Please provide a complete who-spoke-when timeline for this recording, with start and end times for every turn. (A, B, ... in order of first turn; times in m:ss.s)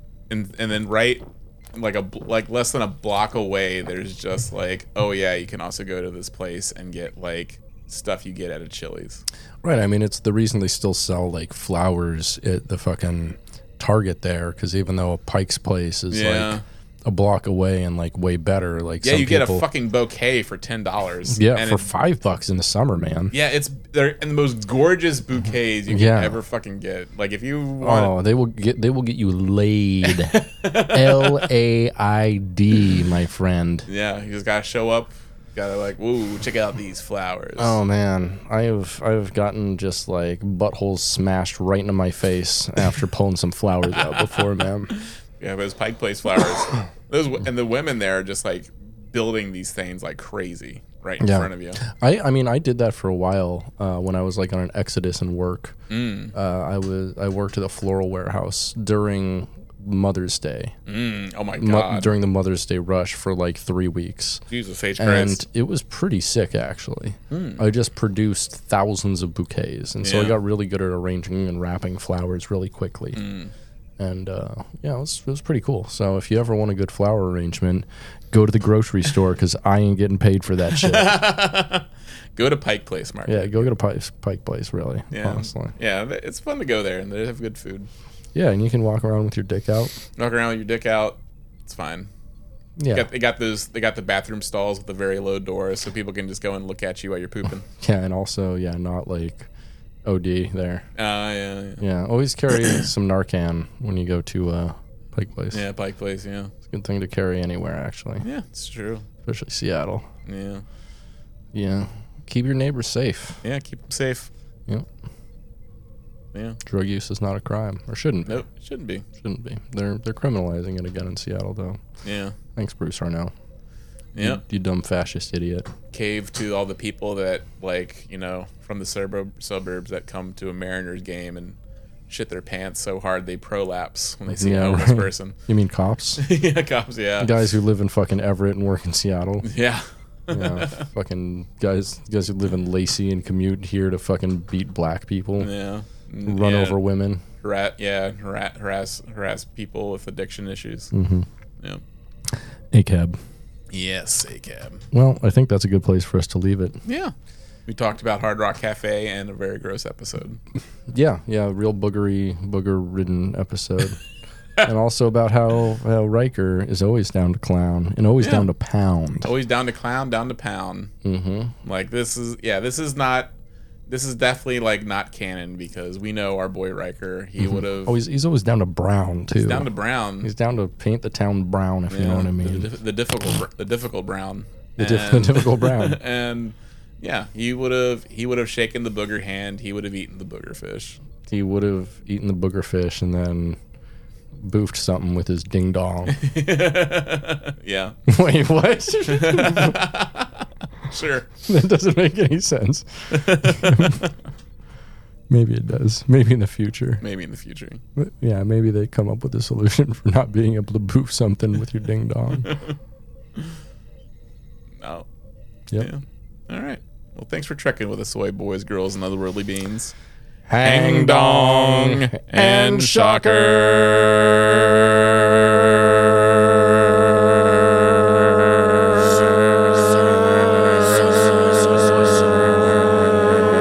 0:00.3-0:09.2 A
0:09.6-0:19.6 B
0:16.1-0:16.6 A
0:19.0-0:21.9 A
0:21.3-0:23.3 B
0:23.3-0:28.1 A
0:25.9-0:26.4 B
0:27.8-0:33.9 B
0:30.0-0:31.5 A
0:33.9-0:37.8 A
0:37.6-0:44.9 B
0:44.1-0:44.4 A
0:45.0-0:51.8 A
0:51.2-0:55.8 B
0:55.9-0:56.4 A
0:56.3-1:00.8 B
1:00.9-1:02.1 A
1:01.6-1:04.4 B
1:04.5-1:05.4 A
1:05.0-1:13.2 B
1:07.3-1:07.7 A
1:10.0-1:10.4 A
1:13.2-1:13.5 A
1:14.0-1:21.2 B
1:20.7-1:23.7 A
1:23.3-1:25.7 B
1:25.1-1:27.9 A
1:28.3-1:30.0 B
1:30.2-1:32.1 A
1:32.8-1:33.1 B
1:32.9-1:37.7 A
1:37.8-1:39.5 B
1:40.0-1:40.9 B
1:41.0-1:41.8 A
1:41.8-1:45.6 B
1:42.5-1:42.8 A
1:45.5-1:46.5 A
1:46.7-1:48.3 B
1:48.2-1:49.1 A
1:49.2-1:50.1 B
1:50.3-1:50.6 A
1:51.5-1:53.4 B
1:53.4-1:54.3 A
1:56.3-1:56.6 A
1:56.6-1:58.4 B
1:58.3-1:59.1 A
1:59.2-2:01.8 B
2:02.0-2:02.4 A
2:02.6-2:03.3 B
2:04.2-2:04.4 A
2:04.2-2:05.7 B
2:05.9-2:11.6 A
2:12.1-2:15.4 A
2:14.3-2:16.2 B
2:16.2-2:17.4 A
2:17.2-2:19.5 B
2:19.4-2:20.9 A
2:20.3-2:25.5 B
2:25.4-2:26.8 A
2:26.3-2:27.2 B
2:27.4-2:30.9 A
2:30.9-2:31.3 B
2:32.7-2:33.2 B
2:33.7-2:34.9 A
2:34.9-2:36.8 B
2:36.8-2:37.1 A
2:37.7-2:40.4 A
2:40.9-2:44.0 B
2:44.6-2:49.3 B
2:48.2-2:48.5 A
2:49.2-2:50.9 A
2:51.0-2:51.6 B
2:51.6-2:53.3 A
2:53.9-2:58.0 A
2:57.4-2:59.7 B
2:59.4-3:00.3 A
3:00.2-3:02.7 B
3:01.9-3:11.0 A
3:04.8-3:06.0 B
3:11.3-3:13.6 B
3:14.4-3:16.2 B
3:16.1-3:18.0 A
3:18.1-3:19.8 B
3:19.1-3:21.3 A
3:21.4-3:24.1 B
3:23.1-3:24.1 A
3:25.3-3:27.0 B
3:27.0-3:27.8 A
3:28.0-3:32.5 B
3:32.4-3:32.8 A
3:34.8-3:35.1 A
3:35.8-3:39.9 A
3:40.5-3:52.7 B
3:40.6-3:43.6 A